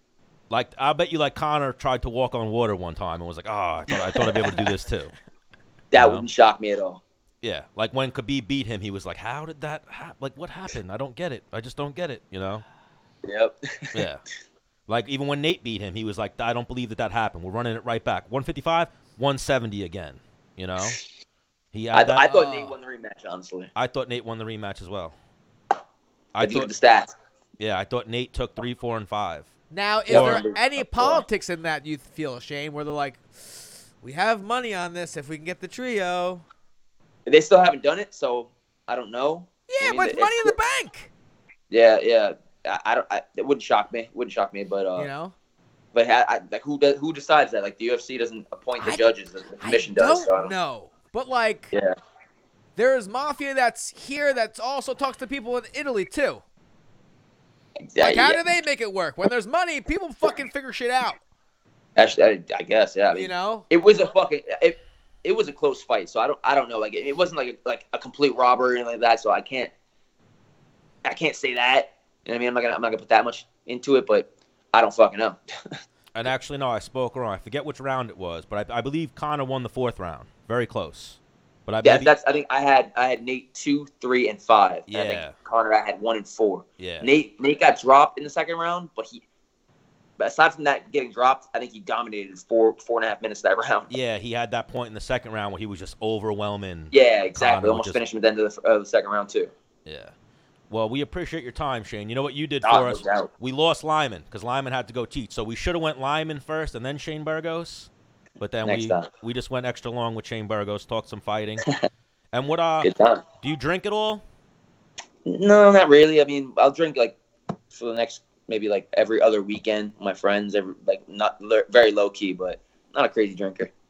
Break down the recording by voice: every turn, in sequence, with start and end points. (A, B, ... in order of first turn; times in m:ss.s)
0:00.5-0:05.1 A
0:04.3-0:04.6 B
0:05.9-0:07.0 B
0:06.0-0:06.3 A
0:07.4-0:12.6 A
0:13.2-0:14.0 B
0:13.9-0:14.2 A
0:14.9-0:21.0 A
0:21.7-0:22.2 A
0:21.9-0:23.7 B
0:22.2-0:22.7 C
0:23.7-0:25.1 A
0:26.3-0:26.7 A
0:26.4-0:27.1 B
0:27.6-0:29.5 A
0:29.7-0:36.4 C
0:30.1-0:30.4 A
0:30.1-0:31.2 B
0:37.2-0:40.5 B
0:39.7-0:41.1 C
0:41.7-0:45.1 B
0:45.0-0:45.3 C
0:45.9-0:50.5 B
0:48.8-0:49.0 C
0:49.6-0:51.7 C
0:52.8-0:56.4 C
0:57.9-0:58.5 B
0:58.0-1:01.2 C
1:02.0-1:09.7 B
1:03.1-1:03.7 C
1:11.0-1:15.4 B
1:16.1-1:22.1 A
1:21.8-1:29.2 B
1:24.9-1:25.3 A
1:26.8-1:27.1 A
1:30.2-1:33.9 B
1:33.9-1:38.0 A
1:36.9-1:39.5 B
1:39.8-1:40.1 A
1:40.7-1:51.6 A
1:42.6-1:43.3 B
1:48.6-1:49.1 B
1:52.3-1:52.9 A
1:52.8-1:53.2 B
1:53.4-1:54.2 A
1:55.2-1:57.2 B
1:57.7-2:03.7 B